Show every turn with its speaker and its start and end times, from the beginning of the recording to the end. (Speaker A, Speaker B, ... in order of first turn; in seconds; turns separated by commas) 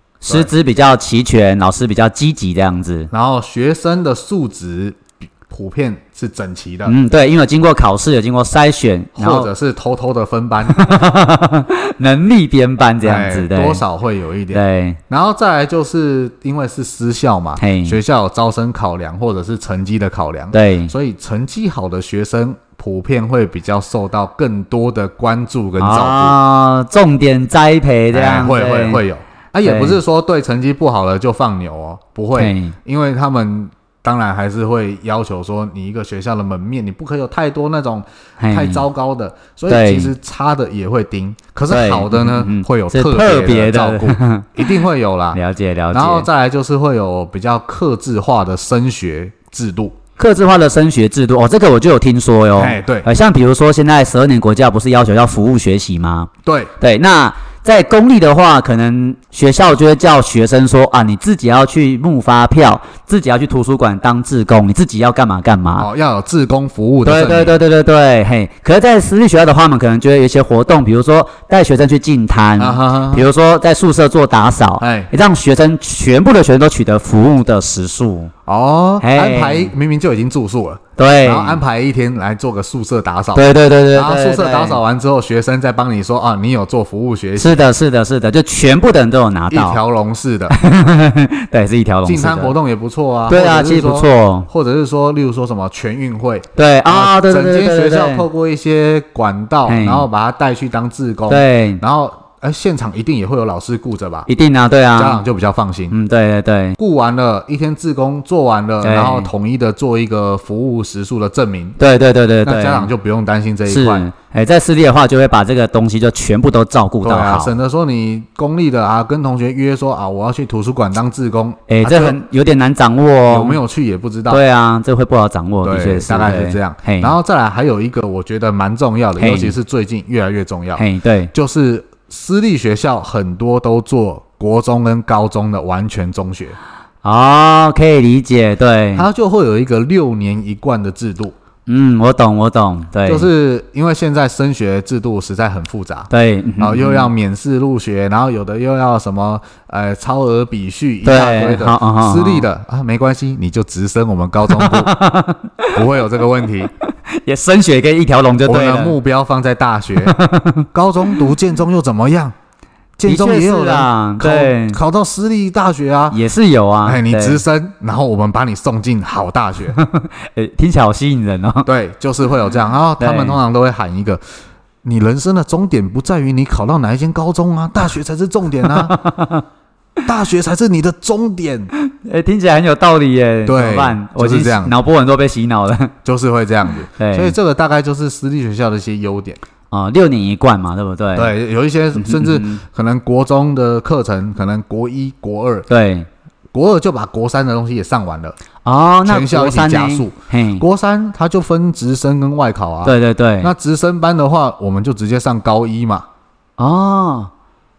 Speaker A: 0.2-3.1, Speaker B: 3.1-7.0, Speaker A: 6.9-9.5, Speaker B: 9.2-11.0, Speaker A: 10.7-13.8, Speaker B: 13.0-26.4, Speaker A: 14.5-15.0, Speaker A: 17.6-18.0, Speaker A: 20.5-20.9, Speaker A: 25.8-29.0, Speaker B: 28.1-45.4, Speaker A: 29.6-30.0, Speaker A: 32.4-32.8, Speaker A: 38.4-38.9, Speaker A: 39.7-40.1, Speaker A: 41.7-44.7, Speaker A: 45.4-46.3, Speaker B: 45.9-50.0, Speaker A: 50.2-65.9, Speaker B: 52.6-53.1, Speaker B: 56.5-56.7, Speaker B: 65.8-67.6, Speaker A: 67.0-78.3, Speaker B: 72.6-73.3, Speaker B: 74.8-75.1, Speaker B: 78.5-87.7, Speaker A: 79.0-79.7, Speaker A: 81.0-81.6, Speaker A: 83.3-84.8, Speaker A: 87.4-89.8, Speaker B: 89.5-90.6, Speaker A: 90.5-92.6, Speaker B: 92.0-104.3, Speaker A: 93.3-94.5, Speaker A: 96.5-98.3, Speaker A: 99.7-100.1, Speaker A: 101.3-101.8, Speaker A: 104.3-105.2, Speaker B: 105.0-106.0, Speaker A: 105.9-106.8, Speaker B: 106.8-111.8, Speaker A: 108.8-109.3, Speaker A: 111.8-112.9, Speaker B: 112.4-114.1, Speaker A: 113.7-117.5, Speaker B: 117.0-122.2, Speaker A: 121.7-123.6, Speaker B: 123.3-124.4, Speaker A: 124.3-127.2, Speaker B: 125.6-136.6, Speaker A: 129.2-129.6, Speaker A: 130.8-131.3, Speaker A: 137.0-139.1, Speaker B: 138.9-141.3, Speaker A: 141.7-143.3, Speaker B: 143.1-155.0, Speaker A: 146.1-147.1, Speaker A: 151.0-152.5, Speaker A: 154.5-155.8, Speaker B: 155.7-156.7, Speaker A: 156.9-159.0, Speaker B: 158.4-160.2, Speaker A: 160.0-160.7, Speaker B: 160.7-162.3, Speaker B: 163.0-166.2, Speaker A: 163.1-164.8, Speaker A: 166.1-167.4, Speaker B: 166.8-169.8, Speaker A: 169.8-171.7, Speaker B: 171.7-174.2, Speaker A: 173.0-173.4, Speaker B: 174.8-179.0, Speaker A: 178.6-179.4, Speaker B: 180.0-181.7, Speaker A: 181.8-185.9, Speaker B: 183.5-184.7, Speaker B: 186.1-189.4, Speaker A: 186.9-187.4, Speaker A: 189.7-191.3, Speaker B: 191.2-195.7, Speaker A: 191.9-192.6, Speaker A: 195.7-196.1, Speaker B: 196.5-198.4, Speaker A: 198.6-200.6, Speaker B: 199.1-206.1, Speaker A: 202.8-203.5, Speaker A: 206.6-207.3